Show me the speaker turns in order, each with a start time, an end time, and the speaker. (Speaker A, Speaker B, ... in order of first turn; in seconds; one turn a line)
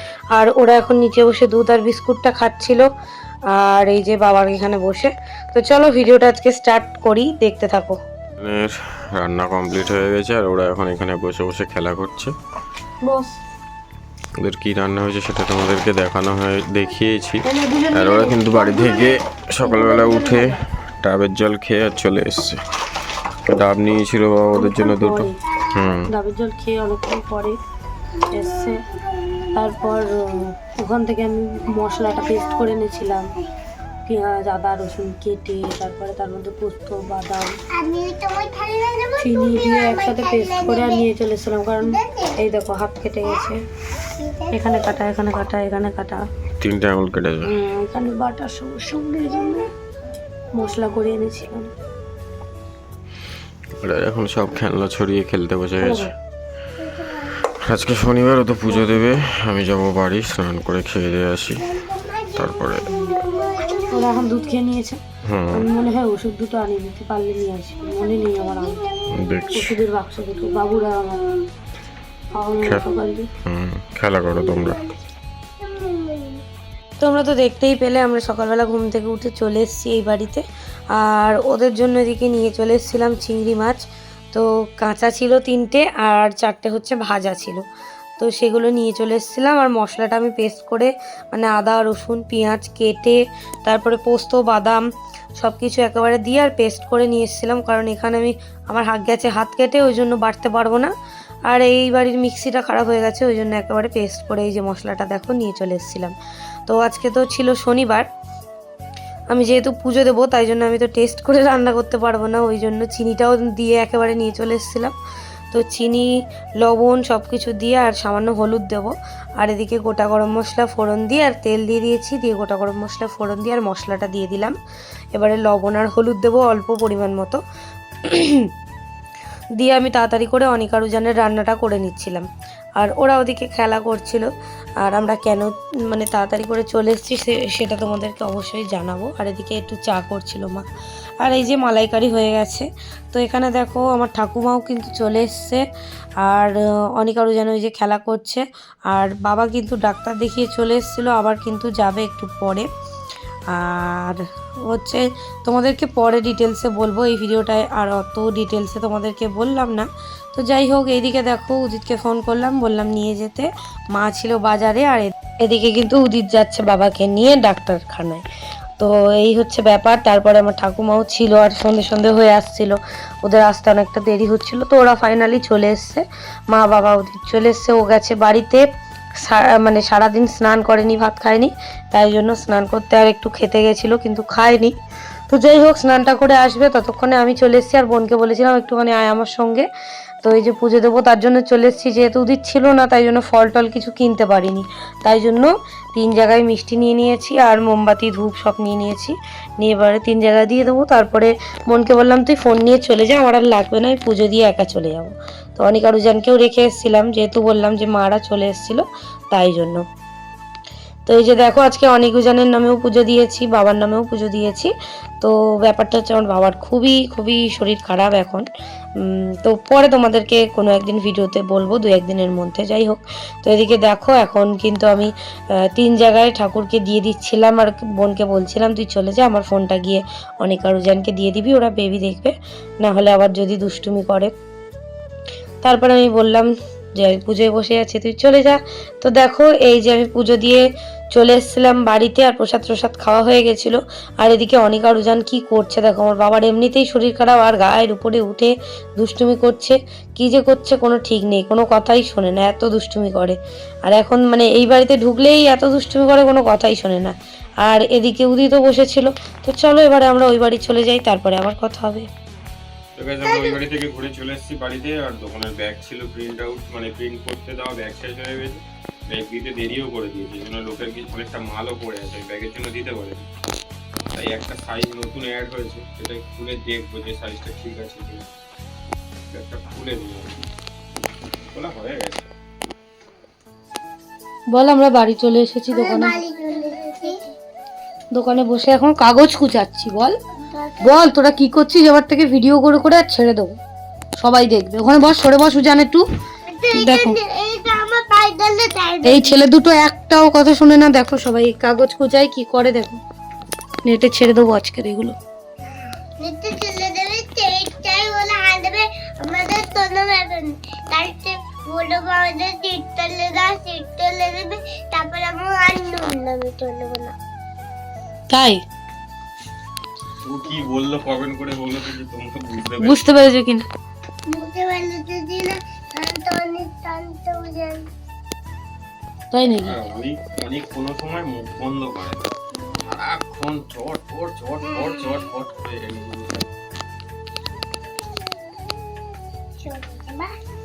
Speaker A: 0.3-2.9
Speaker A: 3.5-8.0
Speaker B: 8.4-12.3
Speaker A: 13.0-13.4
Speaker B: 14.4-22.6
Speaker A: 17.4-20.6
Speaker B: 23.4-26.1
Speaker A: 24.5-25.4
Speaker A: 26.1-27.6
Speaker C: 28.2-30.1
Speaker A: 28.3-28.8
Speaker A: 29.5-33.3
Speaker C: 31.8-32.7
Speaker A: 34.0-37.6
Speaker C: 37.7-41.1
Speaker A: 39.2-43.6
Speaker C: 41.8-42.4
Speaker C: 44.1-45.0
Speaker A: 44.5-46.2
Speaker B: 46.6-47.5
Speaker A: 47.4-49.7
Speaker A: 50.5-51.7
Speaker B: 53.8-56.1
Speaker A: 55.8-56.1
Speaker C: 56.9-57.4
Speaker B: 57.4-61.8
Speaker A: 58.7-59.0
Speaker C: 61.6-64.5
Speaker B: 62.3-63.0
Speaker A: 63.9-68.8
Speaker B: 65.2-65.7
Speaker C: 67.8-69.6
Speaker B: 69.1-69.8
Speaker A: 69.5-71.3
Speaker A: 72.3-73.3
Speaker B: 72.6-72.8
Speaker B: 73.4-74.9
Speaker C: 74.5-74.8
Speaker C: 75.6-76.4
Speaker A: 77.0-80.4
Speaker A: 80.9-87.6
Speaker A: 88.2-94.8
Speaker A: 95.4-100.9
Speaker A: 101.5-106.1
Speaker A: 106.7-108.1
Speaker A: 109.3-114.9
Speaker A: 115.5-116.1
Speaker A: 116.6-124.5
Speaker A: 125.1-127.4
Speaker A: 128.1-128.5
Speaker A: 129.6-132.2
Speaker A: 132.8-134.3
Speaker A: 134.8-140.6
Speaker A: 141.2-145.6
Speaker A: 146.2-152.7
Speaker A: 153.5-168.2
Speaker A: 168.8-178.6
Speaker A: 179.2-184.8
Speaker A: 185.3-189.7
Speaker A: 190.2-209.8
Speaker A: 211.1-218.4
Speaker A: 219.0-225.1
Speaker A: 225.6-234.3
Speaker A: 235.6-262.1
Speaker B: 262.9-273.2
Speaker B: 274.1-278.2
Speaker B: 279.3-280.3
Speaker B: 281.5-282.3
Speaker A: 284.5-286.2
Speaker C: 285.7-287.3
Speaker A: 288.1-290.1
Speaker C: 290.5-291.0
Speaker A: 290.8-293.6
Speaker A: 294.2-296.0
Speaker C: 296.4-299.4
Speaker A: 296.7-297.2
Speaker A: 299.0-303.0
Speaker A: 303.8-305.1
Speaker C: 306.2-317.1
Speaker A: 318.3-318.6
Speaker B: 320.2-323.3
Speaker A: 322.8-323.7
Speaker C: 324.3-327.9
Speaker A: 329.3-329.8
Speaker B: 329.6-332.2
Speaker B: 332.8-336.5
Speaker C: 339.6-340.4